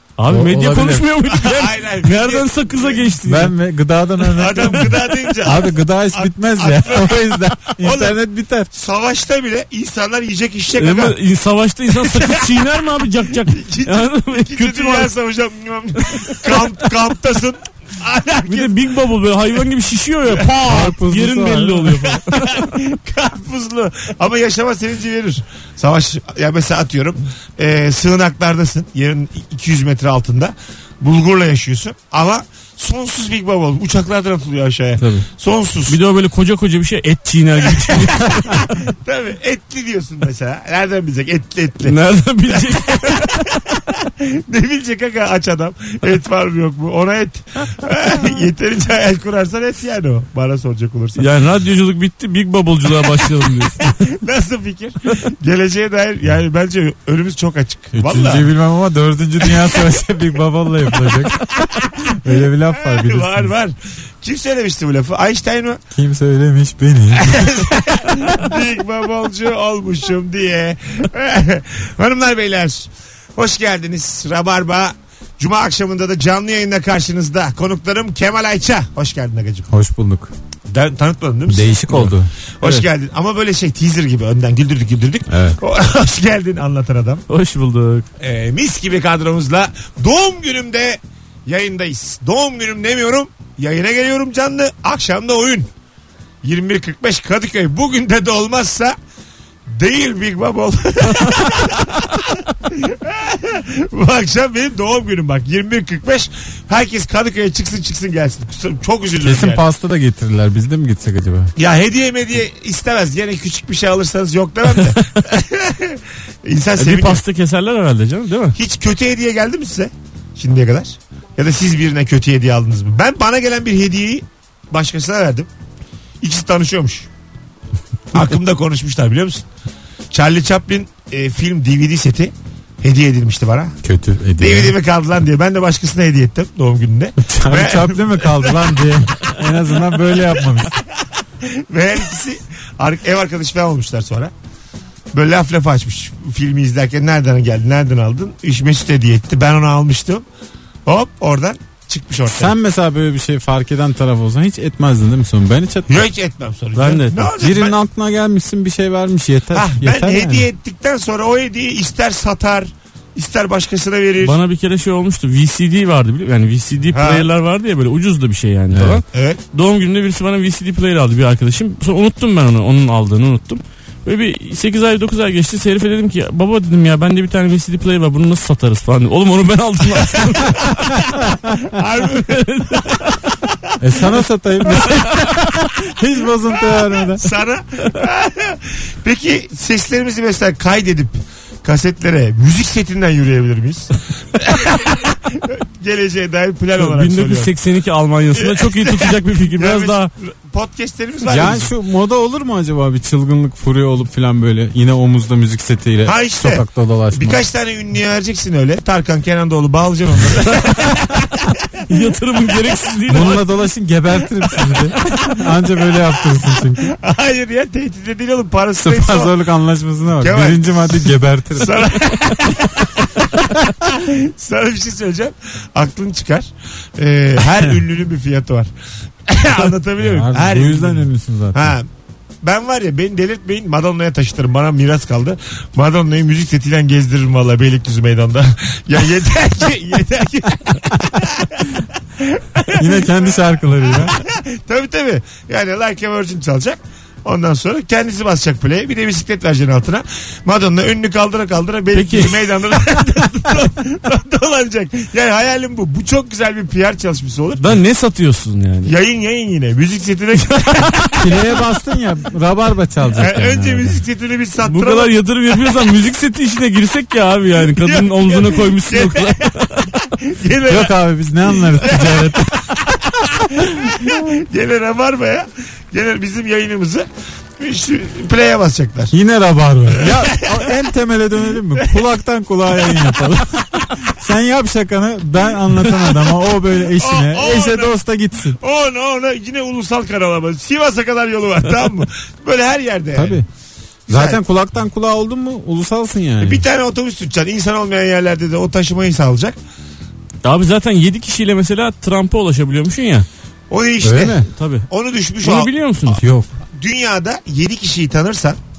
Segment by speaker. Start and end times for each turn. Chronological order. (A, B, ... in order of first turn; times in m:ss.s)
0:00.2-0:03.5 A
0:00.3-0:01.1 B
0:01.3-0:03.2 C
0:03.2-0:08.7 B
0:04.3-0:08.2 C
0:08.7-0:11.2 C
0:10.8-0:15.1 A
0:11.9-0:12.5 C
0:13.5-0:18.7 C
0:16.2-0:16.6 A
0:18.5-0:22.8 A
0:20.3-0:20.9 C
0:20.6-0:22.2 B
0:22.3-0:36.0 C
0:35.9-0:38.7 A
0:37.8-0:42.0 C
0:41.8-0:43.3 A
0:42.5-0:51.3 C
0:51.2-0:54.0 A
0:53.8-0:58.5 C
0:57.9-1:03.5 B
1:02.8-1:05.8 C
1:05.9-1:07.6 B
1:07.2-1:19.7 C
1:19.7-1:20.3 B
1:20.7-1:27.2 C
1:21.5-1:22.9 B
1:25.3-1:25.6 B
1:27.3-1:28.1 A
1:28.2-1:35.7 C
1:36.4-1:39.0 C
1:39.7-1:49.6 C
1:49.2-1:51.5 B
1:51.6-1:57.2 C
1:56.8-1:58.6 A
1:58.6-2:05.5 C
2:06.2-2:07.1 C
2:08.1-2:09.4 C
2:10.1-2:13.8 C
2:13.8-2:14.8 B
2:14.4-2:18.6 C
2:17.2-2:20.7 B
2:21.4-2:24.3 C
2:25.1-2:30.2 C
2:30.9-2:32.5 C
2:32.3-2:36.0 B
2:35.9-2:37.8 C
2:36.8-2:37.3 A
2:37.3-2:40.5 B
2:39.5-2:44.4 C
2:44.2-3:01.0 A
2:46.9-2:47.3 C
2:48.7-2:49.0 B
2:49.1-2:49.4 C
3:01.7-3:03.0 C
3:02.3-3:03.1 A
3:03.8-3:07.3 B
3:07.1-3:17.5 C
3:16.8-3:20.1 A
3:18.4-3:21.7 C
3:21.3-3:27.4 B
3:26.0-3:31.3 C
3:31.9-3:33.4 A
3:33.1-3:36.9 B
3:34.6-3:34.9 C
3:36.8-3:39.4 C
3:38.8-3:41.8 B
3:40.2-3:48.7 C
3:49.3-3:51.9 C
3:50.0-3:51.8 B
3:52.4-4:17.7 C
4:02.7-4:04.2 B
4:11.9-4:12.5 A
4:17.6-4:18.9 A
4:18.8-4:21.2 C
4:20.5-4:20.9 A
4:21.2-4:24.0 B
4:23.2-4:25.1 C
4:24.6-4:29.8 A
4:27.8-4:29.5 C
4:30.0-4:30.9 C
4:30.7-4:32.7 B
4:31.5-4:32.3 C
4:33.2-4:37.1 C
4:37.6-4:39.1 C
4:39.1-4:48.6 B
4:40.0-4:40.6 C
4:45.8-4:46.5 C
4:47.0-4:48.0 C
4:48.6-4:53.4 C
4:53.1-4:53.4 B
4:54.1-4:54.4 C
4:54.1-4:56.6 B
4:56.4-4:59.6 C
5:00.4-5:03.3 A
5:03.7-5:05.7 C
5:04.0-5:04.4 B
5:04.6-5:04.9 A
5:05.4-5:06.2 A
5:06.1-5:06.5 B
5:06.8-5:08.6 C